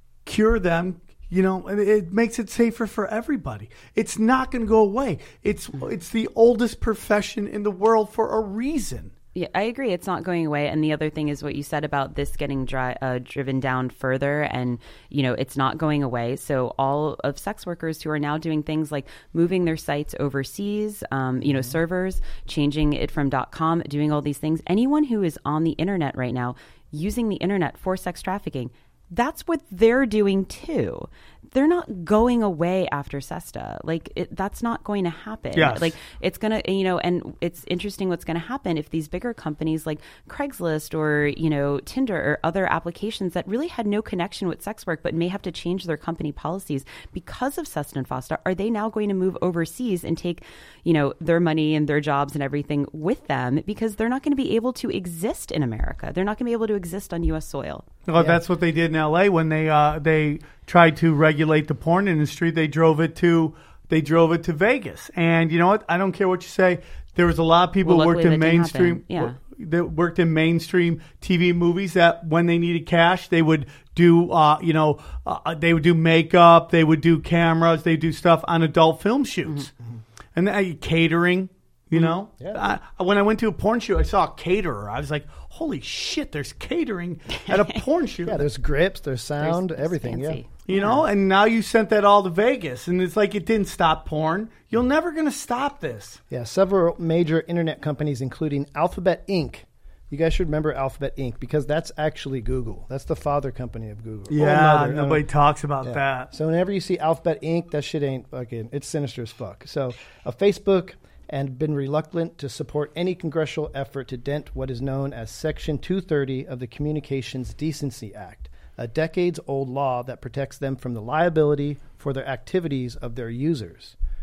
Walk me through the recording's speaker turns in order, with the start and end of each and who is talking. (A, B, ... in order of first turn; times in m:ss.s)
0:00.2-0:09.1 A
0:09.3-0:57.8 B
0:35.5-0:35.9 A
0:58.1-1:19.7 A
1:07.8-1:09.4 B
1:20.3-1:28.4 A
1:28.2-1:30.4 C
1:29.4-1:31.0 B
1:30.7-1:36.2 A
1:36.3-1:45.2 C
1:44.3-1:46.3 A
1:45.8-2:03.9 C